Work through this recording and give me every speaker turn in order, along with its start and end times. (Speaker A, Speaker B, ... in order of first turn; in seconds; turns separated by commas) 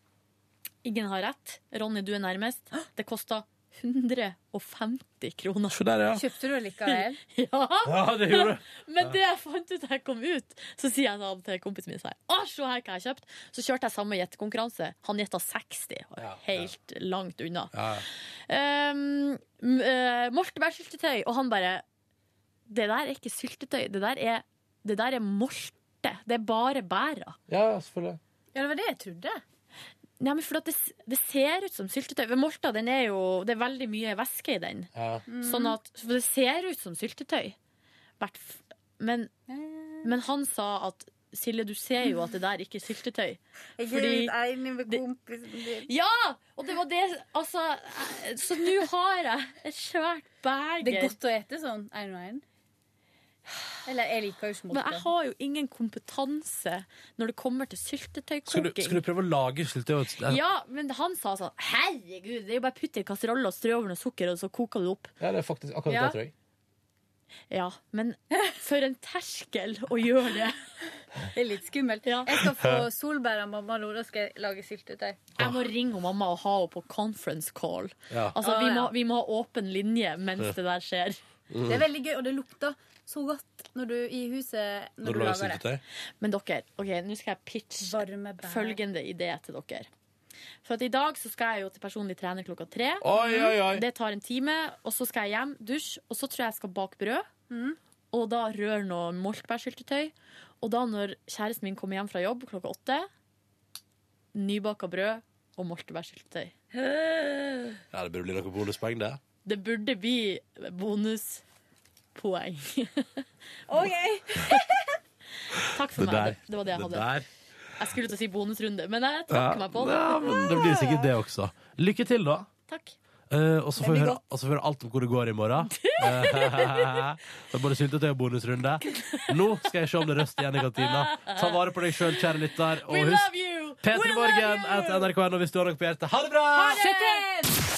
Speaker A: 0.8-5.8, Speaker B: 5.7-6.2, Speaker C: 6.1-7.2, Speaker A: 6.9-17.7, Speaker B: 7.8-9.2, Speaker B: 16.2-16.7, Speaker B: 17.7-18.1, Speaker A: 18.5-21.8, Speaker A: 22.7-27.4, Speaker B: 27.5-28.2, Speaker C: 28.6-29.4, Speaker A: 30.2-34.9, Speaker B: 35.0-35.3, Speaker C: 35.3-35.8, Speaker A: 35.4-37.6, Speaker A: 38.2-39.3, Speaker C: 39.5-40.1, Speaker A: 40.0-44.3, Speaker C: 43.8-45.9, Speaker A: 45.9-51.2, Speaker C: 50.8-52.4, Speaker C: 53.9-55.1, Speaker A: 54.7-59.0, Speaker B: 58.5-60.4, Speaker A: 60.3-65.1, Speaker B: 65.2-66.3, Speaker C: 65.9-66.2, Speaker A: 67.5-70.7, Speaker C: 71.3-75.2, Speaker A: 72.0-72.4, Speaker B: 72.4-72.8, Speaker A: 75.4-81.2, Speaker B: 78.1-78.4, Speaker C: 78.4-78.9, Speaker B: 81.5-81.8, Speaker C: 81.6-85.6, Speaker B: 85.0-85.8, Speaker A: 86.2-89.9, Speaker C: 87.8-88.8, Speaker A: 90.7-97.3, Speaker B: 93.0-93.8, Speaker C: 93.2-93.5, Speaker C: 97.5-97.8, Speaker A: 98.1-103.1, Speaker A: 104.3-106.5, Speaker B: 107.9-109.2, Speaker A: 109.5-111.4, Speaker A: 112.2-113.2, Speaker C: 113.7-115.0, Speaker A: 115.5-117.1, Speaker B: 115.9-117.3, Speaker A: 117.8-120.7, Speaker B: 119.3-122.5, Speaker C: 120.3-121.1, Speaker A: 122.7-123.0, Speaker B: 123.3-136.8, Speaker C: 123.8-124.2, Speaker A: 125.6-127.0, Speaker A: 128.9-129.4, Speaker A: 130.8-132.3, Speaker A: 132.8-135.1, Speaker A: 136.5-137.3, Speaker C: 136.6-137.6